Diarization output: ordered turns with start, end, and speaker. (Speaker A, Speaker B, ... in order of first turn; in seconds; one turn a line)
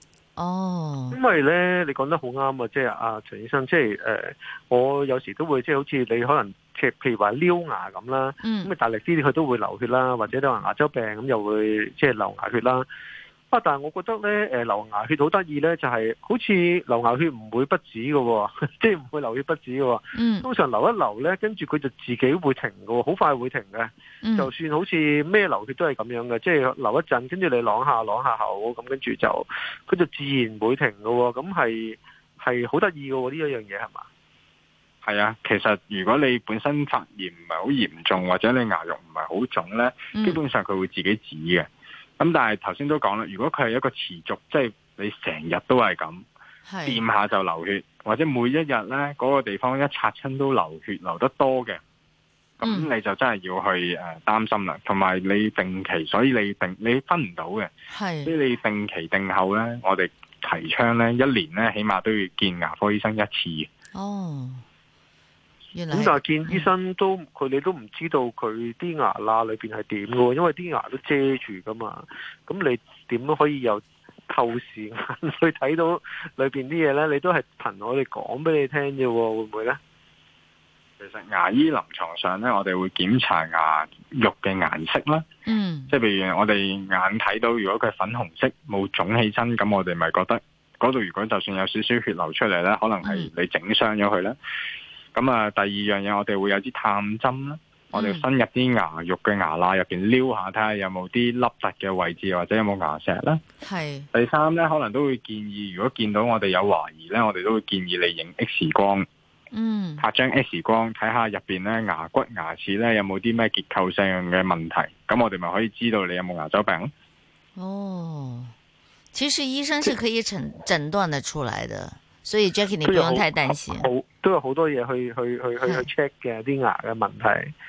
Speaker A: 0.3-1.2
Speaker B: 1.1-12.9
Speaker A: 8.4-8.7
Speaker B: 13.5-34.0
Speaker A: 20.1-20.5
Speaker A: 24.2-24.5
Speaker C: 35.0-41.7
Speaker A: 40.1-40.4
Speaker C: 42.2-46.2
Speaker A: 46.6-47.0
Speaker C: 46.8-51.8
Speaker C: 52.6-57.7
Speaker A: 52.6-52.9
Speaker A: 57.9-58.3
Speaker C: 58.2-63.7
Speaker A: 63.9-64.6
Speaker A: 65.7-66.7
Speaker B: 65.9-79.8
Speaker C: 81.0-85.2
Speaker A: 85.5-85.9
Speaker C: 85.9-94.4
Speaker A: 93.0-93.3
Speaker C: 95.1-103.4
Speaker A: 97.9-98.3
Speaker A: 103.6-104.1
Speaker C: 104.1-109.0
Speaker A: 109.5-110.0
Speaker C: 110.0-116.9
Speaker A: 117.5-118.5
Speaker A: 119.1-123.9
Speaker B: 122.8-127.5